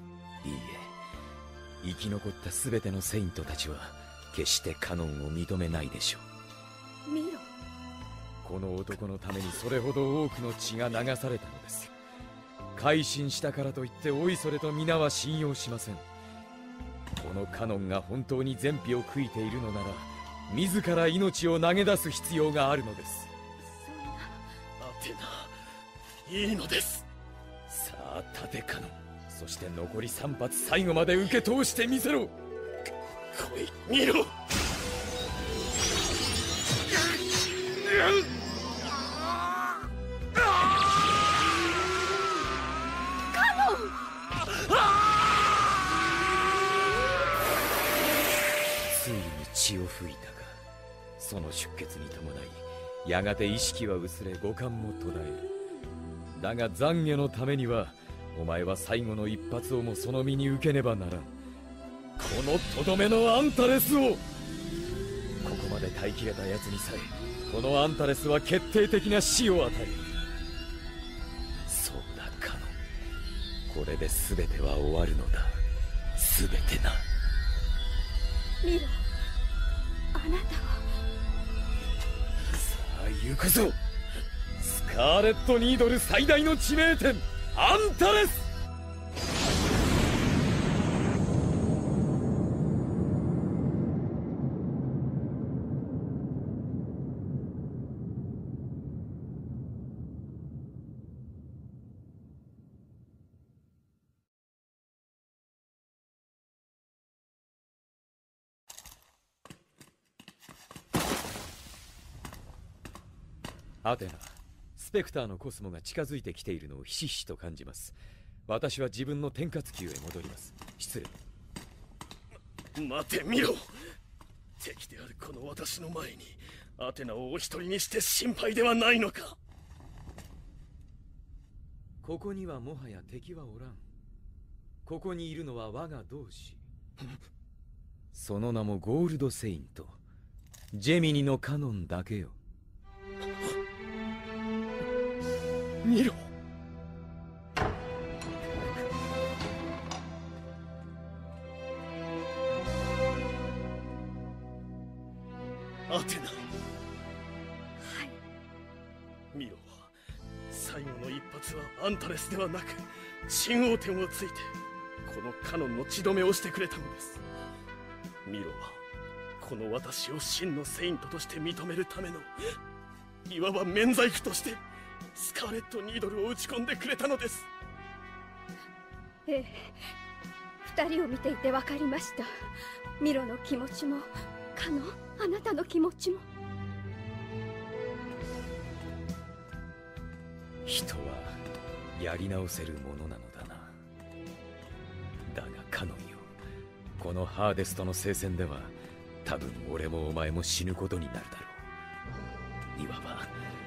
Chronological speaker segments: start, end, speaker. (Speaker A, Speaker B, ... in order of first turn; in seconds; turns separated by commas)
Speaker A: 0.4-1.0, Speaker A: 1.8-6.2, Speaker B: 7.1-7.5, Speaker A: 8.4-11.9, Speaker A: 12.8-16.0, Speaker A: 17.2-23.3, Speaker B: 23.6-24.4, Speaker C: 24.8-25.6, Speaker C: 26.2-27.1, Speaker A: 27.7-32.3, Speaker C: 33.3-34.3, Speaker B: 43.3-44.0, Speaker A: 48.8-50.6, Speaker A: 51.2-55.5, Speaker A: 56.4-61.4, Speaker A: 62.2-64.2, Speaker A: 65.4-70.1, Speaker A: 71.7-72.8, Speaker A: 73.7-75.6, Speaker A: 76.2-77.1, Speaker B: 78.6-79.0, Speaker B: 80.1-81.0, Speaker A: 82.5-83.8, Speaker A: 84.6-88.5, Speaker A: 113.8-118.0, Speaker A: 118.5-121.2, Speaker C: 122.8-123.8, Speaker C: 124.6-129.4, Speaker A: 132.0-133.8, Speaker A: 134.8-136.7, Speaker A: 138.1-140.0, Speaker A: 140.7-142.4, Speaker C: 145.8-146.3, Speaker C: 155.9-156.5, Speaker B: 157.8-158.2, Speaker C: 159.3-159.9, Speaker C: 160.5-167.2, Speaker C: 168.2-168.8, Speaker C: 169.4-172.5, Speaker C: 173.3-174.6, Speaker C: 175.1-177.5, Speaker B: 179.3-179.9, Speaker B: 180.6-186.2, Speaker A: 190.7-191.4, Speaker A: 191.9-193.8, Speaker A: 195.3-196.3, Speaker A: 197.0-201.6, Speaker A: 202.8-203.3